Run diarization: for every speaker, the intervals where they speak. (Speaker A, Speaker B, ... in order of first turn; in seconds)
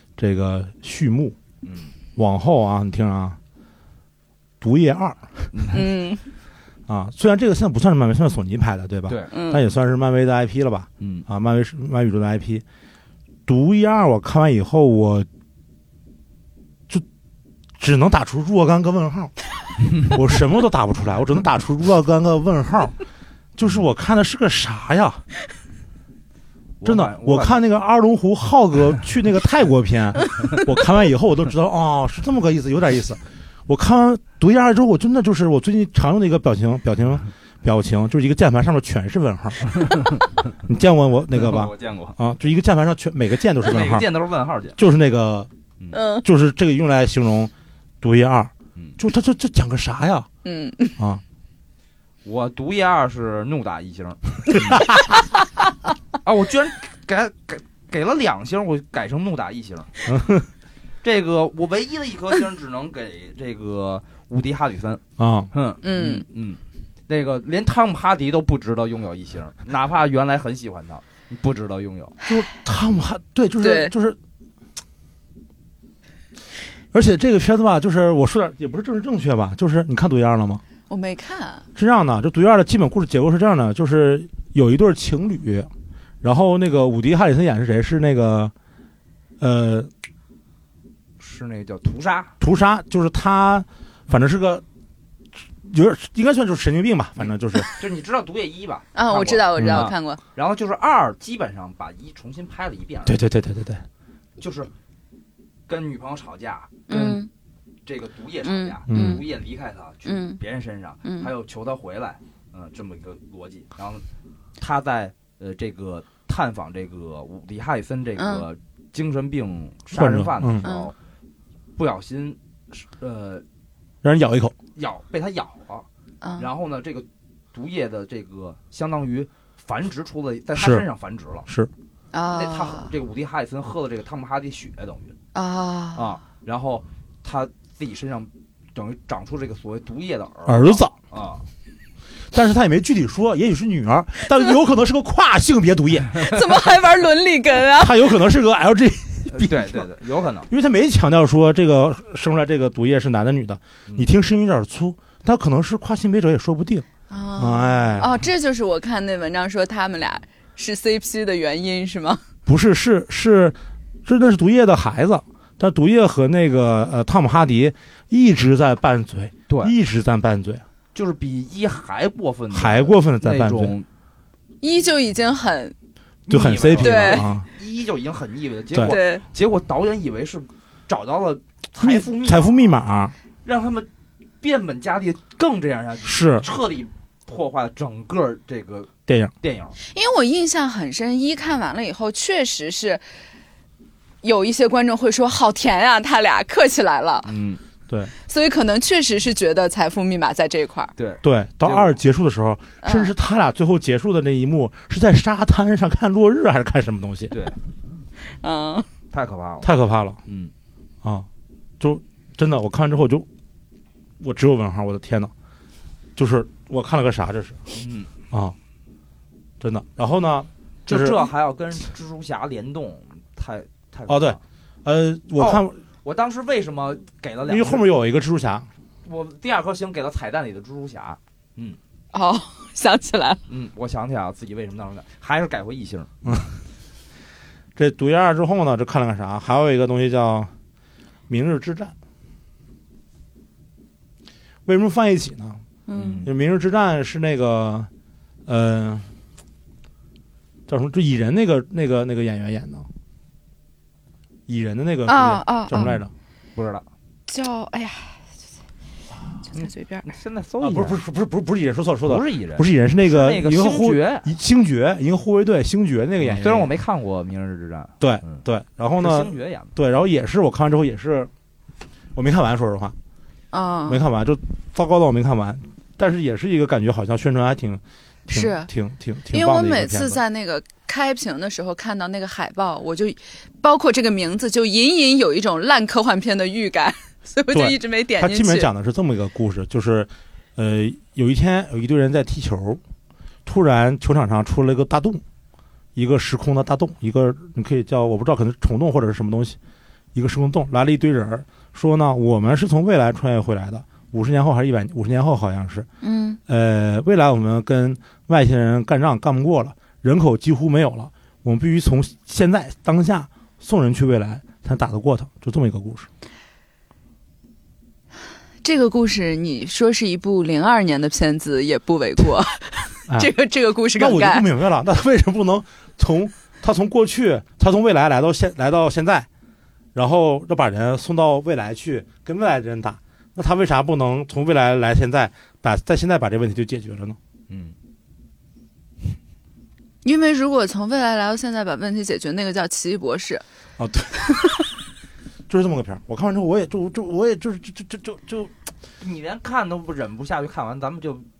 Speaker A: 0.2-1.4, 2.2-3.4, 4.6-5.5, 6.9-12.6, 13.5-15.3, 17.8-19.4, 20.0-22.9, 23.6-25.2, 26.8-39.7, 40.6-44.1, 44.8-45.5, 46.2-50.3, 60.1-60.5, 65.2-65.5, 72.3-74.2, 76.9-80.6, 81.8-85.7, 86.2-88.5, 89.4-89.9, 92.4-94.6, 95.6-97.7, 99.6-99.9, 103.1-103.8, 108.9-109.2, 119.9-120.7, 124.0-124.5, 130.6-130.8, 140.5-140.9, 142.3-146.3, 147.7-149.9, 150.5-156.8, 157.4-158.2, 162.5-170.6, 172.5-173.8, 176.3-177.5, 181.8-183.1, 186.1-186.5, 189.1-189.3, 201.2-207.3, 209.6-210.2, 211.8-213.3, 214.2-215.3, 216.2-217.6, 218.3-218.6, 219.6-221.3, 224.1-225.8, 227.5-228.7, 236.2-236.5, 237.8-240.5, 241.3-241.9, 244.7-245.6, 246.2-247.9, 248.5-249.1, 250.7-252.9, 254.5-256.1, 260.6-266.7, 268.0-271.3, 272.1-272.9, 273.9-280.2, 287.5-292.8, 293.4-295.2, 295.9-299.6, 300.1-305.9, 306.5-316.1, 324.0-329.3, 329.9-337.2, 343.8-344.5, 345.5-348.5
Speaker B: 1.6-1.9, 5.5-5.8, 11.0-11.3, 26.8-27.6, 41.3-42.2, 43.6-44.8, 52.2-54.9, 56.2-59.9, 61.0-65.0, 65.5-72.2, 91.2-92.3, 97.7-103.2, 104.4-104.7, 105.7-107.2, 107.8-114.0, 114.6-120.9, 121.8-123.4, 124.8-125.9, 126.4-131.5, 132.3-135.2, 135.9-141.4, 149.3-150.5, 169.5-169.7, 170.9-173.9, 176.3-182.8, 183.4-183.9, 184.4-189.8, 197.3-197.6, 201.0-202.0, 209.1-209.7, 210.3-210.5, 217.7-218.1, 220.9-224.4, 225.4-227.8, 229.1-231.8, 233.5-236.1, 245.9-246.3, 256.6-256.9, 259.5-261.0, 262.1-264.3, 266.2-268.4, 269.0-269.7, 337.5-337.7, 349.0-351.3
Speaker C: 5.7-6.2, 9.3-9.6, 45.9-46.2, 50.4-51.0, 65.8-66.2, 73.6-73.9, 80.9-81.7, 99.0-100.2, 106.9-107.3, 108.5-109.2, 110.1-110.4, 111.0-111.3, 118.2-118.4, 120.6-120.9, 126.2-126.5, 132.1-132.9, 135.3-136.0, 146.2-148.0, 157.1-162.2, 174.6-175.8, 176.8-177.3, 178.8-179.2, 189.9-193.0, 194.2-197.3, 198.3-200.9, 202.8-203.1, 208.3-208.9, 232.1-233.4, 245.9-246.2, 255.1-255.9, 257.3-258.2, 259.5-260.1, 273.5-274.0, 278.3-278.7, 279.3-288.7, 306.0-306.4, 318.6-324.4, 340.0-343.4